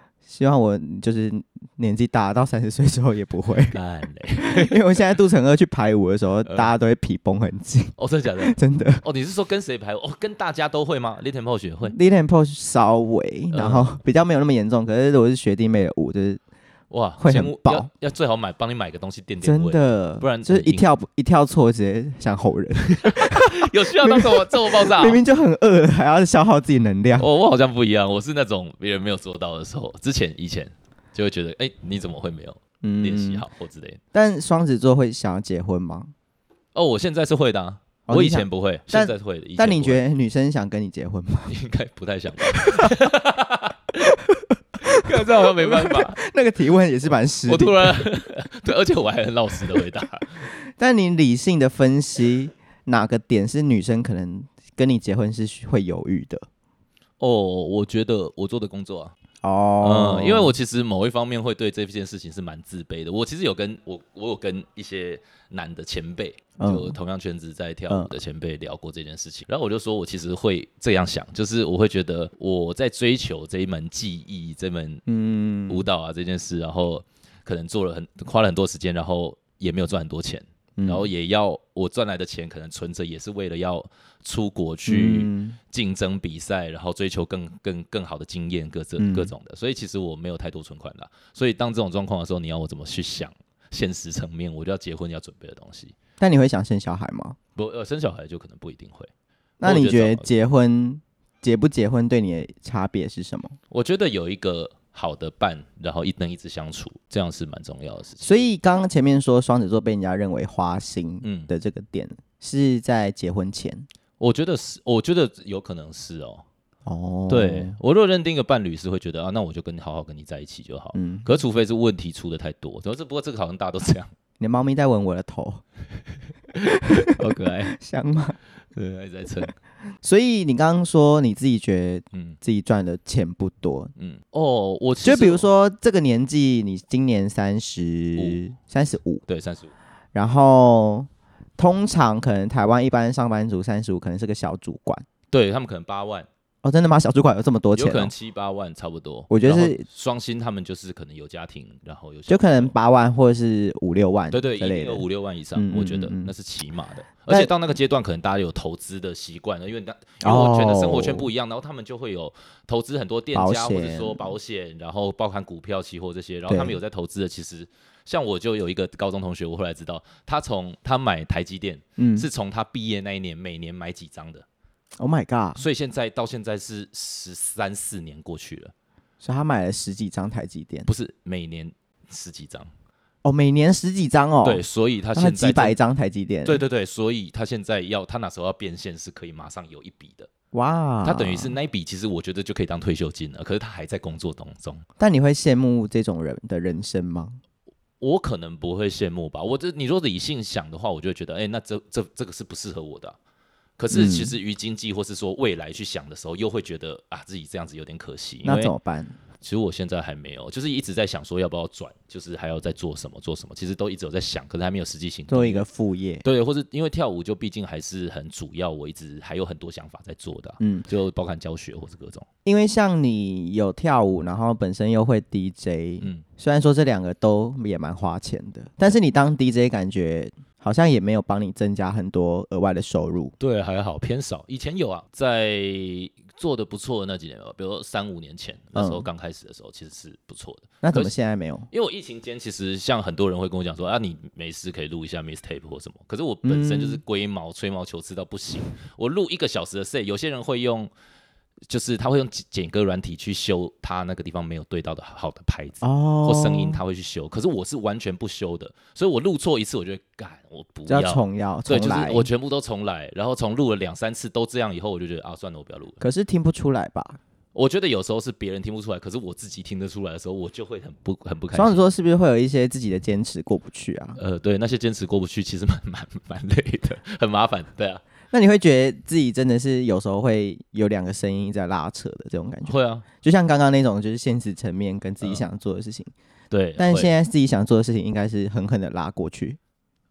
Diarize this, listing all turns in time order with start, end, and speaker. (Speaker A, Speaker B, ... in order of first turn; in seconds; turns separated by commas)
Speaker A: 0.2-3.8, Speaker B: 3.7-4.8, Speaker A: 4.3-9.0, Speaker B: 6.5-6.7, Speaker B: 8.0-11.9, Speaker A: 11.8-16.4, Speaker B: 13.5-14.0, Speaker B: 16.9-20.9, Speaker A: 17.2-17.9, Speaker A: 19.4-27.3, Speaker B: 22.9-25.2, Speaker B: 27.2-34.0, Speaker A: 32.8-33.4, Speaker A: 34.1-36.1, Speaker B: 36.7-40.0, Speaker A: 38.1-41.5, Speaker B: 41.5-44.0, Speaker A: 42.5-42.9, Speaker A: 44.0-48.1, Speaker B: 44.8-46.2, Speaker B: 47.5-50.5, Speaker A: 50.8-56.4, Speaker B: 57.2-59.1, Speaker A: 59.4-60.5, Speaker B: 59.8-75.0, Speaker A: 66.6-67.0, Speaker A: 75.1-75.8, Speaker B: 75.7-95.9, Speaker A: 80.8-81.1, Speaker A: 84.9-85.6, Speaker A: 89.0-89.3, Speaker A: 96.2-97.4, Speaker B: 97.5-100.3, Speaker A: 99.6-103.5, Speaker B: 103.7-108.5, Speaker A: 108.2-113.9, Speaker B: 111.2-111.5, Speaker B: 114.2-116.4, Speaker A: 116.8-117.8, Speaker B: 117.3-124.1, Speaker A: 120.9-121.3, Speaker A: 124.4-125.6, Speaker A: 126.6-128.4, Speaker B: 127.1-127.7, Speaker B: 128.7-129.5, Speaker A: 130.0-133.9, Speaker B: 134.0-135.5, Speaker A: 135.0-139.2, Speaker B: 138.2-138.4, Speaker B: 139.3-139.7, Speaker A: 140.1-145.0, Speaker B: 145.3-146.3, Speaker A: 146.6-148.1, Speaker B: 147.7-152.7, Speaker A: 149.3-149.8, Speaker A: 152.3-156.3, Speaker B: 154.3-174.4, Speaker A: 160.2-161.3, Speaker A: 163.3-164.3, Speaker A: 166.5-166.8, Speaker A: 172.0-172.3, Speaker A: 175.0-175.6, Speaker B: 175.6-178.7, Speaker A: 179.2-180.9, Speaker B: 180.9-182.7, Speaker A: 183.2-186.6, Speaker B: 184.4-185.8, Speaker B: 186.4-190.3, Speaker A: 190.5-191.6, Speaker B: 191.0-194.8, Speaker A: 195.0-197.4, Speaker B: 198.0-203.2, Speaker B: 203.8-208.7, Speaker A: 203.9-204.3, Speaker A: 208.4-209.2, Speaker B: 209.4-215.6, Speaker A: 215.3-216.2, Speaker B: 216.2-222.2, Speaker A: 220.6-220.9, Speaker A: 222.4-233.3, Speaker B: 233.4-241.1, Speaker A: 238.7-239.1, Speaker A: 240.8-241.7, Speaker B: 241.7-250.9, Speaker A: 246.4-247.0, Speaker B: 251.7-266.0, Speaker A: 255.8-256.8, Speaker A: 260.9-262.3, Speaker A: 266.0-267.2, Speaker B: 267.5-271.8, Speaker A: 271.5-274.2, Speaker B: 274.2-278.0, Speaker A: 278.3-286.1, Speaker B: 282.6-283.0, Speaker B: 286.5-287.1, Speaker A: 286.8-289.6